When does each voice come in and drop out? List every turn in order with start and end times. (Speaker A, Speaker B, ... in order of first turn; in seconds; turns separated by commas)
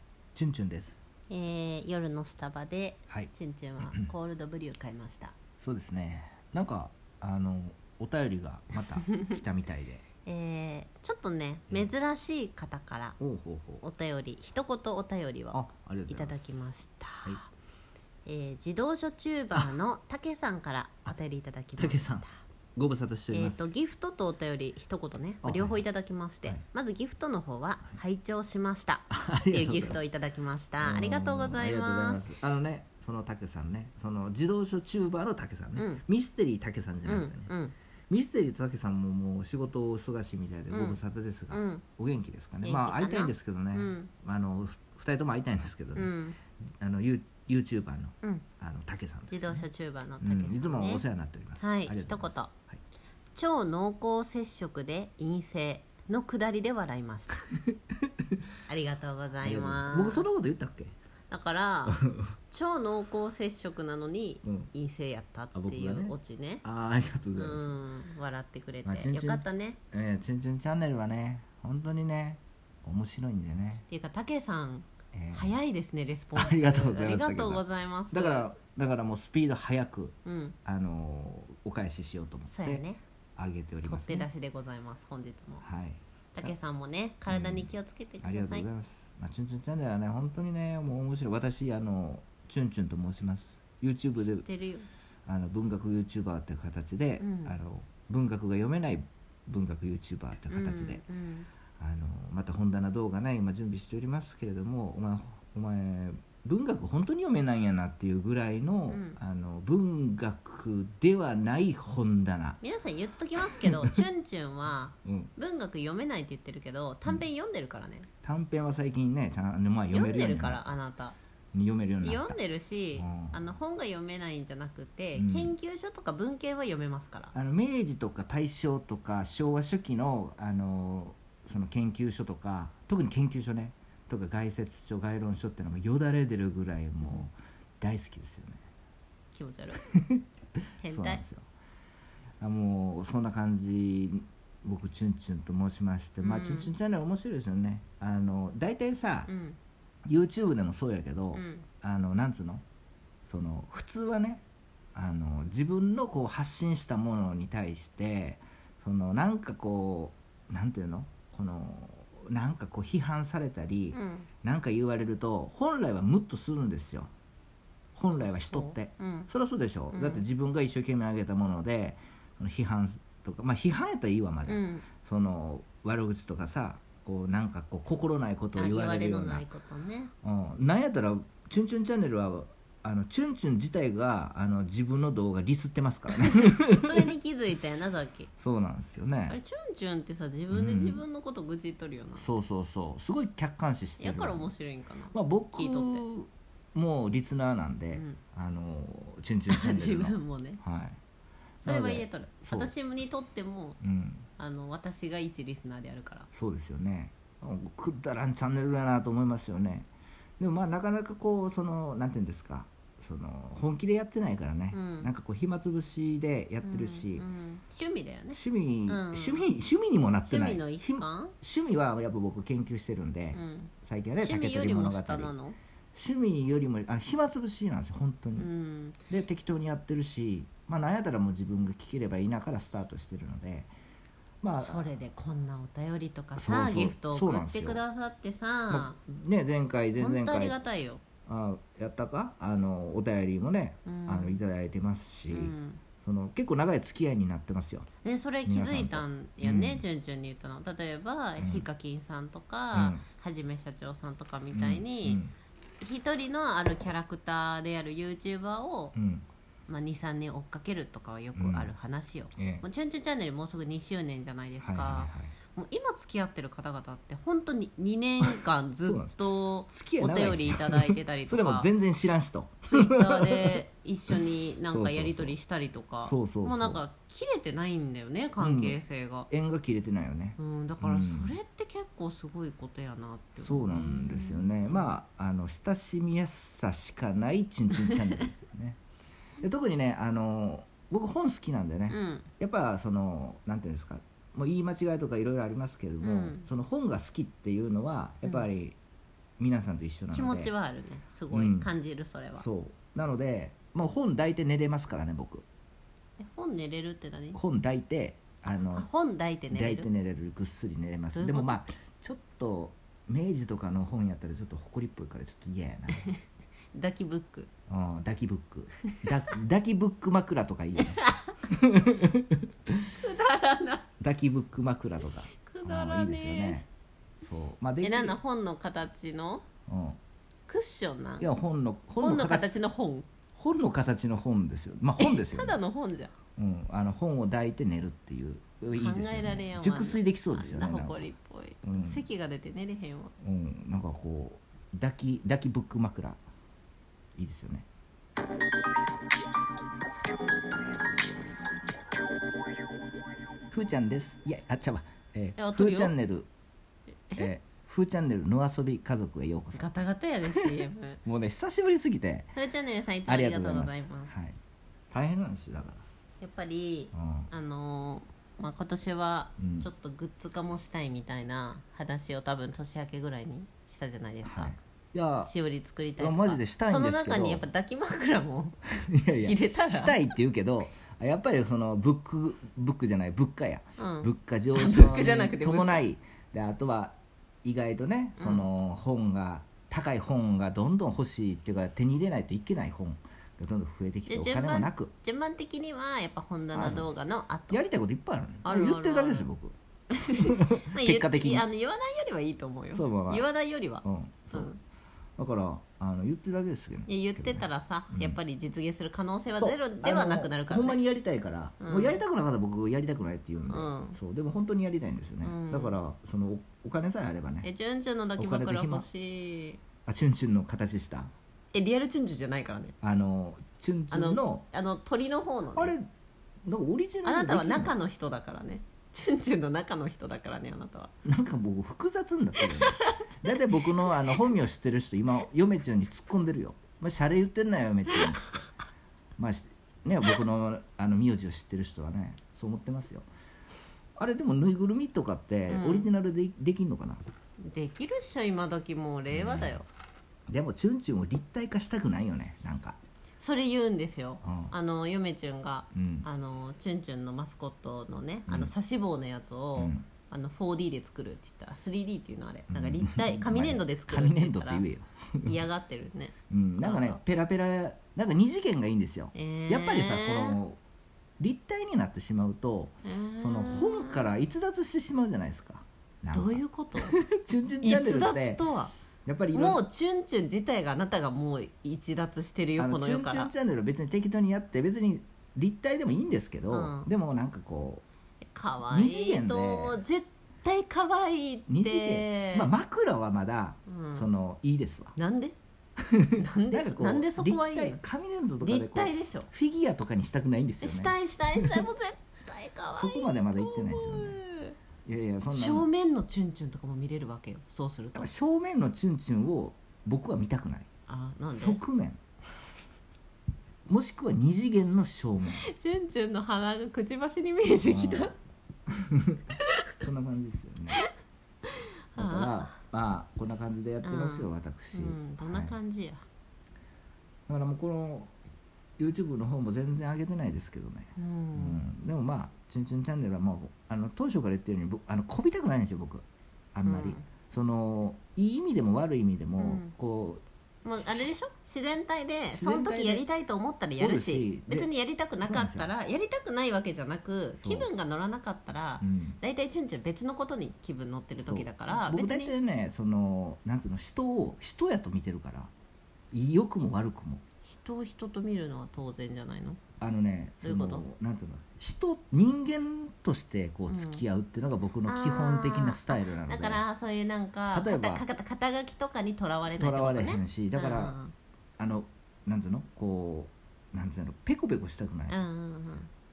Speaker A: 0.3-1.0, Speaker B: 1.3-5.3, Speaker A: 3.1-4.1, Speaker A: 5.6-10.0, Speaker B: 10.2-13.2, Speaker A: 13.2-13.8, Speaker B: 13.8-17.5, Speaker A: 15.5-16.4, Speaker B: 18.2-22.4, Speaker A: 21.8-23.7, Speaker B: 23.3-32.2, Speaker A: 25.4-25.8, Speaker A: 29.1-30.0, Speaker A: 30.8-37.5, Speaker B: 35.8-36.0, Speaker B: 37.0-37.7, Speaker A: 38.1-46.1, Speaker B: 40.7-41.0, Speaker B: 41.5-41.8, Speaker B: 42.6-44.1, Speaker B: 45.9-46.4, Speaker A: 46.8-49.6, Speaker B: 49.3-51.0, Speaker A: 50.2-52.8, Speaker B: 51.6-52.5, Speaker B: 53.3-57.5, Speaker A: 57.7-58.1, Speaker B: 58.7-60.3, Speaker A: 59.4-60.9, Speaker B: 61.3-66.6, Speaker A: 61.9-62.3, Speaker A: 64.4-64.7, Speaker A: 65.5-67.7, Speaker B: 67.3-69.8, Speaker A: 68.8-73.8, Speaker B: 73.9-78.5, Speaker A: 75.1-75.5, Speaker A: 76.3-82.8, Speaker B: 80.2-80.5, Speaker B: 82.5-83.0, Speaker A: 83.4-84.3, Speaker B: 83.8-85.6, Speaker A: 85.6-86.5, Speaker B: 86.3-88.7, Speaker A: 87.3-94.5, Speaker B: 94.2-94.9, Speaker A: 95.2-101.0, Speaker B: 97.2-97.6, Speaker B: 100.5-101.5, Speaker A: 101.8-112.6, Speaker B: 108.9-109.2, Speaker B: 112.6-118.1, Speaker A: 113.4-114.0, Speaker A: 115.0-115.3, Speaker A: 118.2-120.7, Speaker B: 119.9-121.2, Speaker A: 121.5-122.4, Speaker B: 122.0-127.3, Speaker A: 123.0-123.5, Speaker A: 125.1-125.5, Speaker A: 127.3-138.6, Speaker B: 139.3-139.8, Speaker A: 139.9-140.2, Speaker B: 140.8-141.2, Speaker A: 140.8-141.5, Speaker A: 142.4-149.3, Speaker B: 146.2-146.7, Speaker B: 149.3-149.6, Speaker A: 150.1-152.6, Speaker B: 151.3-151.7, Speaker A: 153.2-154.4, Speaker A: 154.9-167.1, Speaker B: 163.9-164.3, Speaker A: 167.9-179.4, Speaker B: 168.2-169.3, Speaker B: 169.9-170.2, Speaker B: 174.5-174.8, Speaker B: 178.6-180.1, Speaker A: 180.2-187.1, Speaker B: 186.4-188.3, Speaker A: 188.4-189.4, Speaker B: 189.3-192.3, Speaker A: 190.5-191.0, Speaker A: 192.2-194.5, Speaker B: 194.0-196.0, Speaker A: 195.1-201.0, Speaker B: 197.9-198.2, Speaker B: 199.5-200.6, Speaker A: 201.6-202.7, Speaker B: 201.6-203.8, Speaker A: 203.8-204.3, Speaker B: 204.4-206.3, Speaker A: 206.3-217.2, Speaker B: 214.7-215.1, Speaker B: 216.6-219.4, Speaker A: 218.3-225.3, Speaker B: 220.2-221.3, Speaker B: 223.3-225.6, Speaker A: 225.9-228.5, Speaker B: 228.3-229.0, Speaker A: 229.1-233.7, Speaker A: 234.4-234.9, Speaker B: 234.5-238.9, Speaker A: 236.3-237.8, Speaker A: 238.7-240.6, Speaker B: 240.0-241.0, Speaker A: 241.2-247.9, Speaker B: 243.8-244.4, Speaker B: 245.3-245.8, Speaker B: 248.0-255.2, Speaker A: 248.4-249.8, Speaker A: 251.4-251.7, Speaker A: 252.7-253.0, Speaker A: 254.5-255.3, Speaker B: 255.8-258.9, Speaker A: 258.9-259.2, Speaker B: 259.7-271.7, Speaker A: 261.4-261.7, Speaker A: 262.3-262.6, Speaker A: 264.6-265.3, Speaker A: 268.8-275.4, Speaker B: 272.7-279.3, Speaker A: 276.0-276.8, Speaker A: 278.4-278.8, Speaker A: 279.3-281.4, Speaker B: 280.4-284.9, Speaker A: 283.4-288.8, Speaker B: 287.9-288.2, Speaker A: 289.4-298.8, Speaker B: 291.9-292.3, Speaker B: 296.0-296.5, Speaker A: 299.4-300.5, Speaker B: 300.1-302.4, Speaker A: 301.3-301.7, Speaker A: 302.4-305.4, Speaker B: 306.2-307.4, Speaker A: 307.3-308.9, Speaker B: 308.7-309.9, Speaker A: 309.5-316.1, Speaker B: 311.1-311.6, Speaker B: 316.7-317.5, Speaker A: 317.7-322.9, Speaker B: 320.8-321.3, Speaker B: 323.0-323.9, Speaker A: 324.0-326.6, Speaker B: 325.4-326.6, Speaker A: 327.2-328.2, Speaker B: 327.8-329.4, Speaker A: 329.7-330.0, Speaker B: 330.5-331.3, Speaker A: 331.2-332.6, Speaker B: 332.0-333.1, Speaker A: 333.3-335.6, Speaker B: 335.0-336.1, Speaker A: 336.4-341.0, Speaker B: 338.7-343.1, Speaker A: 341.6-342.0, Speaker A: 343.2-346.2, Speaker A: 347.1-347.6, Speaker A: 353.5-356.3, Speaker B: 355.4-355.9, Speaker A: 357.1-359.7, Speaker B: 359.5-361.0, Speaker A: 360.2-362.3, Speaker B: 362.3-364.1, Speaker A: 363.1-364.4, Speaker A: 364.9-365.8, Speaker B: 366.2-374.6, Speaker A: 366.9-367.3, Speaker A: 369.4-369.7, Speaker A: 374.2-375.3, Speaker B: 375.2-378.6, Speaker A: 376.0-377.4, Speaker A: 378.9-394.9, Speaker B: 379.2-380.1, Speaker B: 383.8-385.8, Speaker B: 388.2-388.5, Speaker B: 394.1-397.6, Speaker A: 396.5-396.9, Speaker A: 397.5-399.6, Speaker B: 398.4-399.3, Speaker B: 399.9-404.6, Speaker A: 400.2-401.4, Speaker A: 402.7-403.3, Speaker A: 403.8-404.5, Speaker A: 405.2-408.2, Speaker B: 406.9-410.8, Speaker A: 409.4-417.5, Speaker B: 411.6-412.0, Speaker B: 413.5-414.0, Speaker B: 415.2-415.8, Speaker B: 417.4-419.6, Speaker A: 418.2-418.9, Speaker A: 419.9-421.1, Speaker B: 421.5-422.7, Speaker A: 422.8-424.4, Speaker B: 423.9-425.7, Speaker A: 425.6-425.9, Speaker A: 426.4-427.7, Speaker B: 427.0-430.9, Speaker A: 431.0-438.4, Speaker B: 432.4-434.2, Speaker B: 437.9-438.2, Speaker A: 439.2-443.1, Speaker A: 444.0-447.0, Speaker B: 445.5-445.9, Speaker B: 447.4-449.7, Speaker A: 449.1-449.6, Speaker A: 450.3-452.8, Speaker B: 453.2-464.6, Speaker A: 454.2-454.5, Speaker A: 455.7-456.1, Speaker A: 459.6-459.9, Speaker A: 462.5-465.5, Speaker B: 465.2-467.0, Speaker A: 466.3-470.6, Speaker B: 469.1-470.4, Speaker A: 471.2-478.4, Speaker B: 472.8-474.1, Speaker B: 476.1-477.0, Speaker B: 477.6-478.7, Speaker A: 479.1-479.6, Speaker B: 479.3-483.3, Speaker A: 482.6-487.8, Speaker B: 486.5-486.9, Speaker B: 488.3-492.5, Speaker A: 488.7-489.8, Speaker A: 491.5-494.9, Speaker B: 493.7-494.1, Speaker B: 494.9-495.3, Speaker A: 495.8-501.6, Speaker B: 496.2-497.8, Speaker B: 498.4-499.3, Speaker B: 500.6-504.5, Speaker A: 502.7-504.2, Speaker A: 504.9-505.7, Speaker B: 505.3-508.1, Speaker A: 507.9-510.7, Speaker B: 510.9-511.6, Speaker A: 511.3-512.0, Speaker A: 513.7-515.5, Speaker B: 515.4-518.1, Speaker A: 517.6-518.1, Speaker A: 518.7-519.2, Speaker A: 519.8-520.8, Speaker B: 521.5-522.5, Speaker A: 522.0-525.6, Speaker B: 523.8-526.0, Speaker A: 527.3-528.1, Speaker A: 528.8-540.2, Speaker B: 531.0-531.6, Speaker B: 536.6-537.0, Speaker B: 539.4-539.7, Speaker B: 540.6-552.3, Speaker A: 542.3-543.0, Speaker A: 543.8-544.7, Speaker A: 545.2-545.7, Speaker A: 547.4-547.7, Speaker A: 548.8-549.2, Speaker A: 551.2-555.5, Speaker A: 556.1-557.2, Speaker B: 557.4-559.6, Speaker A: 559.8-566.6, Speaker B: 560.4-560.8, Speaker B: 563.7-564.0, Speaker B: 564.9-571.1, Speaker A: 567.5-568.0, Speaker A: 569.5-571.0, Speaker A: 571.6-575.2, Speaker B: 575.1-575.9